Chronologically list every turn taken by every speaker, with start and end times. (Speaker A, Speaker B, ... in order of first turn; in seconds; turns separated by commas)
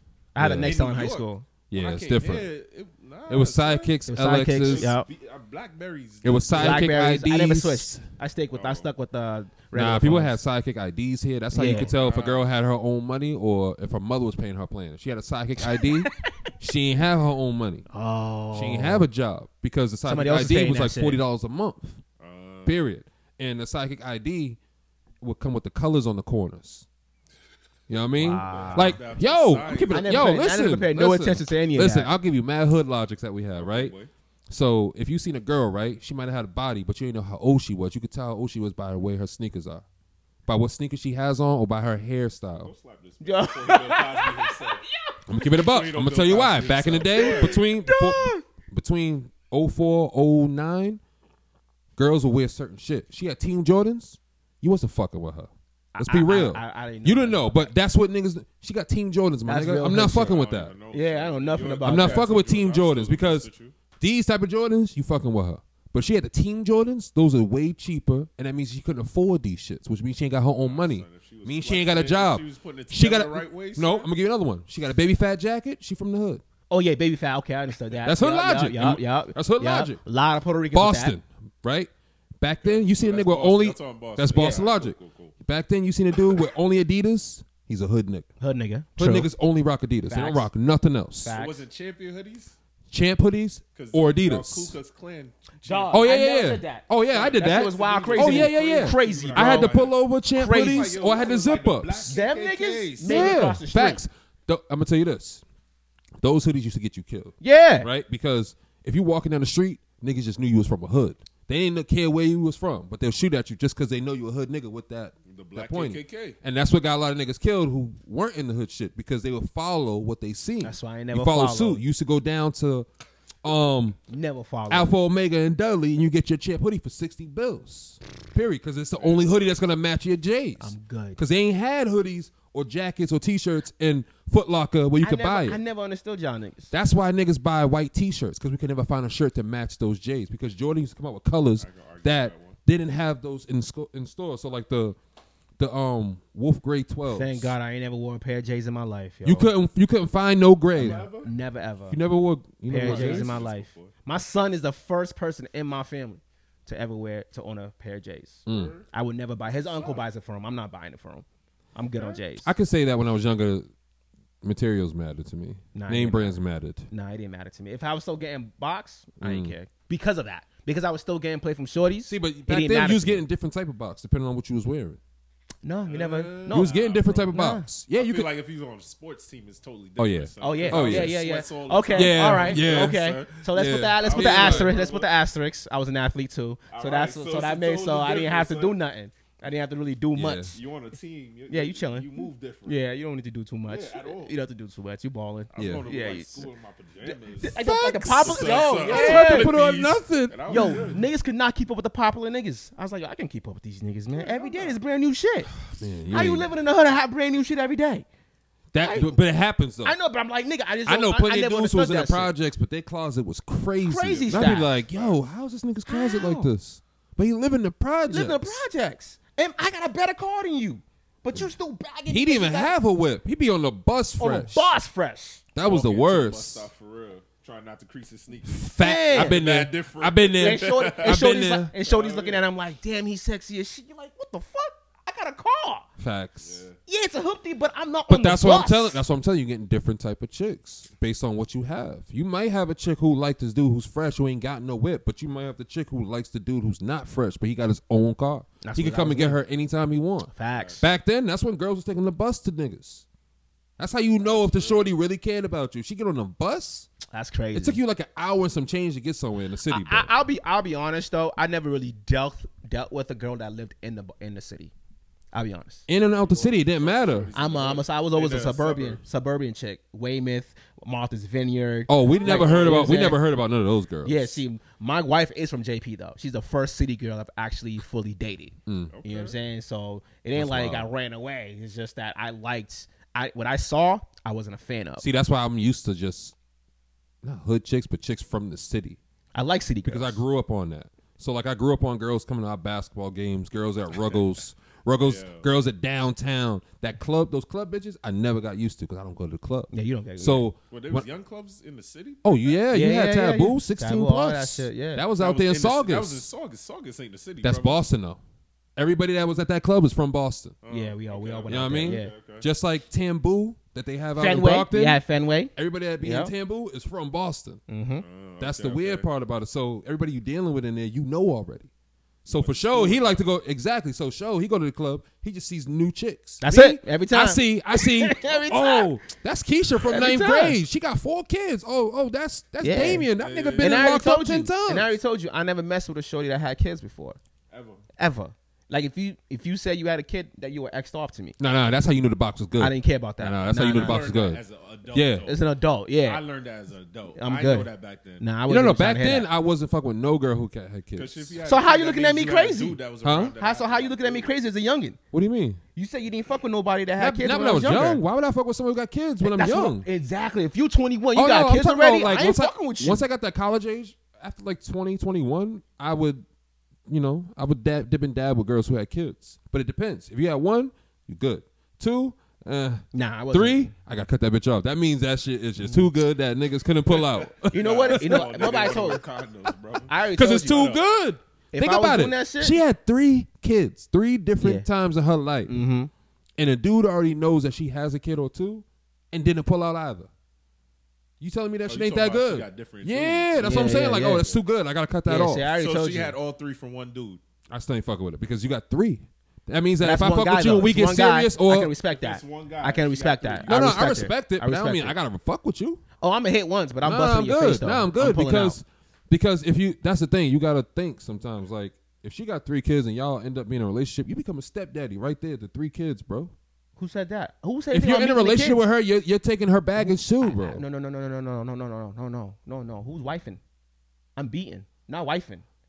Speaker A: 0.3-1.4, Speaker B: 0.4-0.7, Speaker C: 0.6-4.0, Speaker B: 1.7-2.5, Speaker B: 3.3-4.9, Speaker A: 4.1-5.1, Speaker C: 4.6-6.9, Speaker B: 6.2-8.0, Speaker A: 6.5-10.4, Speaker C: 8.5-8.9, Speaker B: 9.7-17.9, Speaker A: 11.5-11.9, Speaker C: 11.8-12.4, Speaker A: 15.6-16.5, Speaker A: 17.9-19.0, Speaker B: 18.5-22.0, Speaker A: 20.1-21.2, Speaker C: 22.2-22.9, Speaker B: 22.6-24.6, Speaker B: 25.2-26.9, Speaker B: 27.9-33.9, Speaker A: 28.2-29.0, Speaker C: 28.3-30.2, Speaker A: 29.9-32.1, Speaker C: 33.5-34.1, Speaker B: 34.5-39.8, Speaker B: 40.5-42.7, Speaker C: 42.6-44.8, Speaker A: 43.2-45.1, Speaker B: 45.3-51.0, Speaker C: 45.5-47.6, Speaker A: 47.1-48.4, Speaker B: 52.0-60.7, Speaker A: 55.9-57.7, Speaker A: 59.5-60.3, Speaker C: 60.0-63.7, Speaker A: 60.9-62.3, Speaker B: 61.8-63.5, Speaker B: 64.0-76.4, Speaker C: 70.6-74.1, Speaker A: 76.7-81.2, Speaker B: 78.0-80.0, Speaker B: 80.7-88.3, Speaker C: 82.6-85.3, Speaker A: 84.3-84.6, Speaker A: 88.4-89.3, Speaker B: 89.0-91.3, Speaker A: 90.1-90.5, Speaker A: 91.2-91.6, Speaker C: 91.3-92.5, Speaker B: 92.9-94.8, Speaker C: 93.7-96.1, Speaker A: 95.6-99.8, Speaker B: 95.9-102.1, Speaker C: 97.1-103.4, Speaker A: 100.3-100.9, Speaker A: 102.1-104.0, Speaker B: 103.0-105.4, Speaker B: 106.2-122.9, Speaker A: 107.4-107.9, Speaker C: 115.2-116.4, Speaker A: 120.6-121.8, Speaker B: 123.4-124.0, Speaker A: 124.1-124.9, Speaker B: 124.7-135.6, Speaker C: 129.0-129.7, Speaker A: 130.6-131.2, Speaker A: 135.0-136.7, Speaker B: 136.7-145.0, Speaker C: 141.6-142.6, Speaker B: 145.6-147.5, Speaker A: 147.1-149.5, Speaker B: 149.2-151.1, Speaker C: 150.8-151.3, Speaker A: 150.8-152.0, Speaker B: 151.9-153.4, Speaker A: 152.7-162.5, Speaker C: 152.8-153.9, Speaker B: 158.5-158.7, Speaker C: 158.5-158.9, Speaker C: 159.6-160.0, Speaker C: 161.9-162.2, Speaker B: 162.4-163.7, Speaker B: 164.4-166.9, Speaker A: 165.7-173.2, Speaker B: 169.2-169.5, Speaker B: 172.1-175.0, Speaker A: 175.6-176.7, Speaker C: 175.8-177.3, Speaker B: 176.5-178.3, Speaker A: 177.3-177.7, Speaker C: 177.9-183.4, Speaker B: 180.0-181.2, Speaker A: 180.4-190.6, Speaker B: 181.9-184.7, Speaker C: 184.0-185.1, Speaker C: 186.7-188.8, Speaker B: 190.1-190.5, Speaker C: 190.5-192.8, Speaker A: 191.5-192.1, Speaker A: 192.7-196.4, Speaker C: 193.7-194.3, Speaker C: 195.5-197.6, Speaker B: 195.6-195.8, Speaker A: 197.0-199.5, Speaker B: 197.4-200.9, Speaker C: 198.2-201.0, Speaker A: 200.5-205.5, Speaker C: 204.1-204.8, Speaker B: 205.8-206.5, Speaker A: 206.1-208.1, Speaker B: 208.7-209.9, Speaker A: 208.8-209.2, Speaker A: 209.8-212.3, Speaker B: 210.8-218.6, Speaker A: 213.8-214.7, Speaker C: 214.0-215.2, Speaker A: 215.9-216.5, Speaker A: 218.1-222.8, Speaker B: 222.1-224.7, Speaker A: 224.2-225.4, Speaker B: 225.5-226.7, Speaker C: 225.6-231.2, Speaker B: 228.4-231.7, Speaker A: 228.8-229.4, Speaker A: 230.4-235.9, Speaker C: 231.8-232.4, Speaker B: 236.0-236.6, Speaker C: 236.4-236.8, Speaker A: 236.8-239.0, Speaker B: 238.1-253.1, Speaker A: 248.6-249.4, Speaker A: 250.3-250.8, Speaker C: 250.5-250.8, Speaker B: 253.8-256.9, Speaker C: 254.2-254.9, Speaker A: 257.1-257.8, Speaker B: 257.5-260.1, Speaker A: 259.7-264.7, Speaker A: 265.3-265.8, Speaker B: 265.9-267.3, Speaker C: 266.2-269.0, Speaker A: 267.3-273.2, Speaker B: 271.9-274.4, Speaker C: 272.0-272.9, Speaker A: 274.0-285.0, Speaker B: 278.7-278.9, Speaker C: 278.9-279.4, Speaker B: 280.3-280.9, Speaker B: 285.0-286.3, Speaker B: 287.2-289.0, Speaker A: 289.3-290.2, Speaker B: 289.8-301.1, Speaker C: 294.0-294.3, Speaker C: 295.0-295.4, Speaker A: 299.7-300.5, Speaker C: 300.7-302.6, Speaker B: 302.2-306.2, Speaker A: 302.7-305.0, Speaker C: 305.2-307.8, Speaker B: 307.4-308.2, Speaker B: 308.8-310.6, Speaker C: 310.6-312.5, Speaker A: 310.7-312.1, Speaker B: 311.5-315.0, Speaker A: 314.2-316.3, Speaker B: 315.6-317.6, Speaker A: 317.7-318.0, Speaker C: 318.0-319.1, Speaker B: 318.4-321.7, Speaker C: 322.2-323.1, Speaker B: 322.2-334.9, Speaker A: 326.4-328.9, Speaker A: 329.8-330.6, Speaker A: 332.6-337.2, Speaker C: 333.2-333.9, Speaker C: 337.5-337.8, Speaker A: 338.0-341.4, Speaker B: 341.4-345.3, Speaker A: 342.6-344.1, Speaker C: 343.7-345.4, Speaker A: 345.2-346.2, Speaker C: 346.0-348.2, Speaker A: 347.1-349.2, Speaker B: 348.5-351.4, Speaker C: 350.9-354.3, Speaker A: 351.4-352.8, Speaker B: 353.0-353.3, Speaker A: 353.4-355.0, Speaker B: 355.1-355.6, Speaker A: 355.7-358.0, Speaker B: 357.0-359.9, Speaker A: 359.2-363.0, Speaker B: 361.1-366.2, Speaker B: 366.9-378.8, Speaker A: 372.9-373.7, Speaker A: 375.6-375.9, Speaker C: 376.9-380.8, Speaker A: 377.5-379.0, Speaker A: 379.9-380.7, Speaker B: 380.1-385.5, Speaker A: 381.5-382.6, Speaker A: 384.4-384.7, Speaker A: 385.5-385.9, Speaker B: 386.4-390.1, Speaker B: 391.2-395.5, Speaker C: 391.7-394.4, Speaker A: 393.4-394.3, Speaker A: 395.1-396.1, Speaker C: 395.6-397.2, Speaker B: 397.5-401.7, Speaker A: 399.8-404.9, Speaker C: 401.9-403.7, Speaker B: 403.4-405.8, Speaker A: 406.0-408.6, Speaker B: 406.8-416.3, Speaker A: 416.8-418.6, Speaker B: 417.7-420.6, Speaker A: 419.8-423.4, Speaker A: 424.1-425.4